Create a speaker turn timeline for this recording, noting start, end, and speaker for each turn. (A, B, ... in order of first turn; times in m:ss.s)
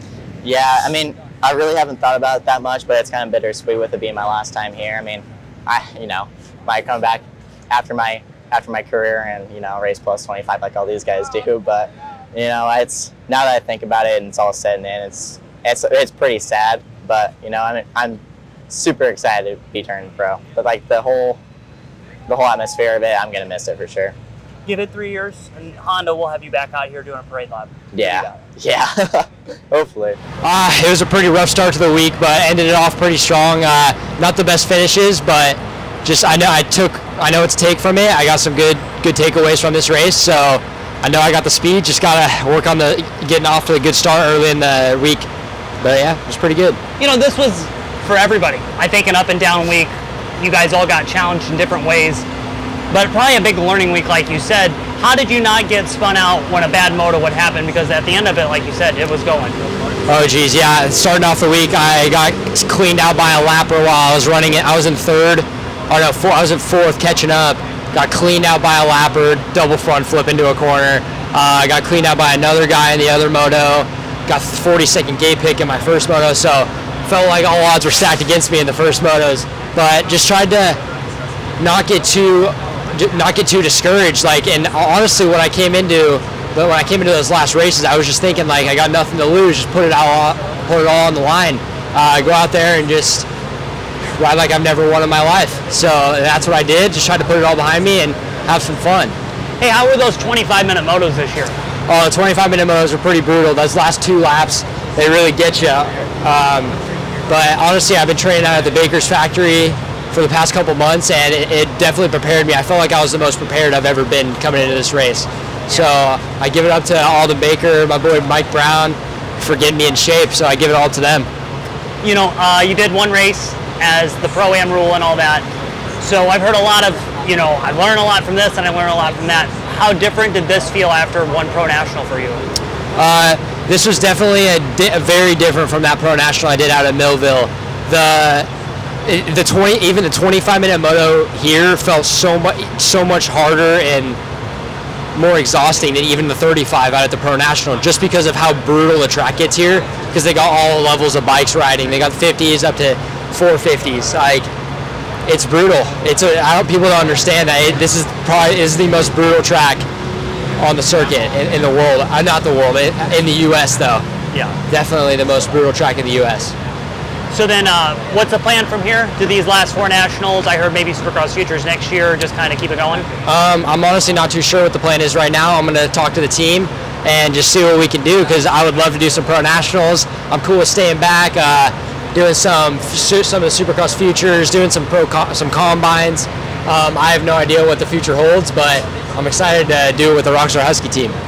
0:00.4-0:21.4 A
0:22.3-0:24.2 A
0:24.7-0:28.4 B
0:27.9-0:30.2 A
0:30.4-0:45.3 C
0:45.8-0:46.8 C
0:47.0-0:52.3 B
0:52.9-0:59.6 B
1:00.1-1:20.8 C
1:21.6-1:33.3 C
1:34.2-1:39.2 C
1:39.6-1:41.6 B
1:41.9-1:46.8 C
1:47.3-2:01.3 C
2:02.0-2:05.5 B
2:06.0-2:12.4 B
2:13.0-2:18.5 C
2:19.0-2:24.2 C
2:25.2-2:34.5 C
2:35.3-2:39.8 C
2:40.6-2:44.0 C
2:44.3-2:44.6 B
2:44.7-2:46.6 C
2:47.3-2:53.1 B
2:53.2-3:11.2 C